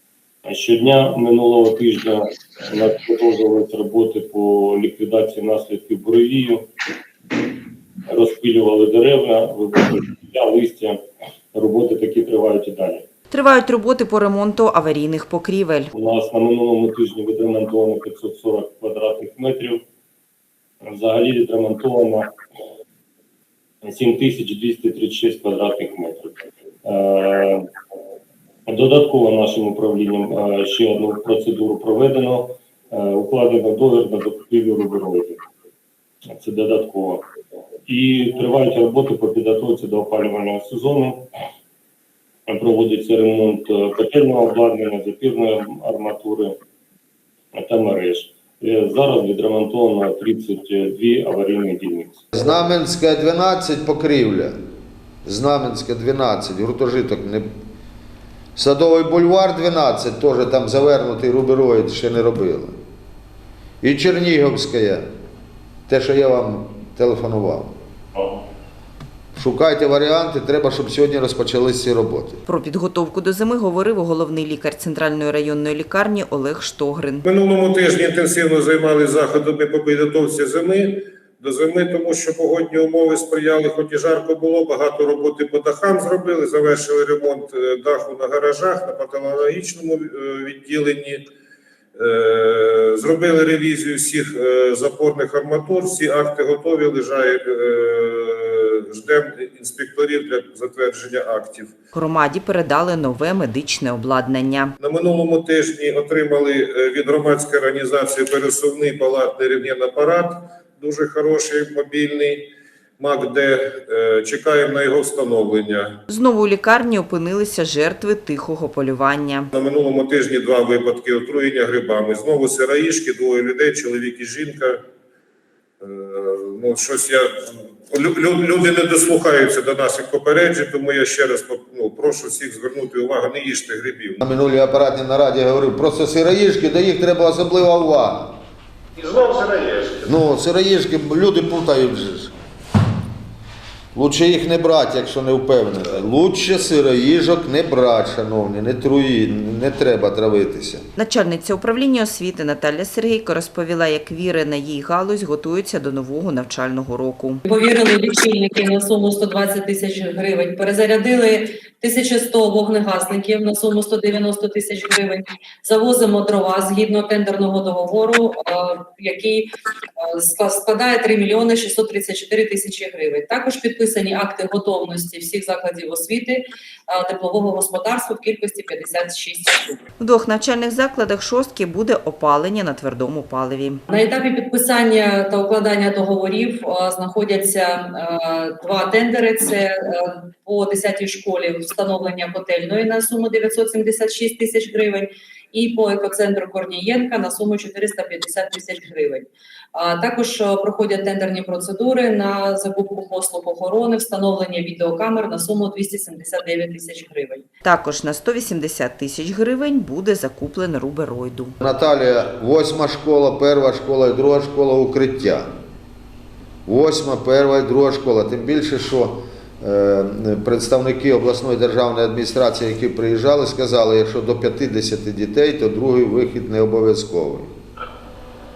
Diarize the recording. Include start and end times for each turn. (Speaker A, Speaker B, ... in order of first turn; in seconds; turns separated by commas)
Speaker A: 0.4-6.7, Speaker A: 8.1-11.0, Speaker A: 11.5-13.1, Speaker B: 13.3-15.9, Speaker A: 15.9-19.8, Speaker A: 20.8-22.3, Speaker A: 23.8-27.7, Speaker A: 28.6-35.4, Speaker A: 36.2-37.2, Speaker A: 37.9-41.3, Speaker A: 42.5-46.5, Speaker A: 47.5-52.2, Speaker C: 52.3-54.5, Speaker C: 55.2-57.5, Speaker C: 58.5-62.7, Speaker C: 63.8-65.0, Speaker C: 65.9-67.7, Speaker C: 69.3-72.4, Speaker B: 72.5-77.2, Speaker D: 77.2-91.2, Speaker D: 92.0-101.7, Speaker B: 101.9-104.7, Speaker D: 104.8-116.0, Speaker B: 116.1-119.5, Speaker D: 119.5-124.8, Speaker D: 125.8-134.2, Speaker C: 134.2-138.3, Speaker D: 139.0-140.1, Speaker C: 140.1-142.3, Speaker C: 143.9-150.8, Speaker B: 151.0-157.4, Speaker E: 157.4-169.5, Speaker E: 170.0-179.8, Speaker B: 180.0-183.8, Speaker E: 183.9-207.5, Speaker B: 207.6-211.5, Speaker C: 211.6-215.4, Speaker C: 216.7-227.5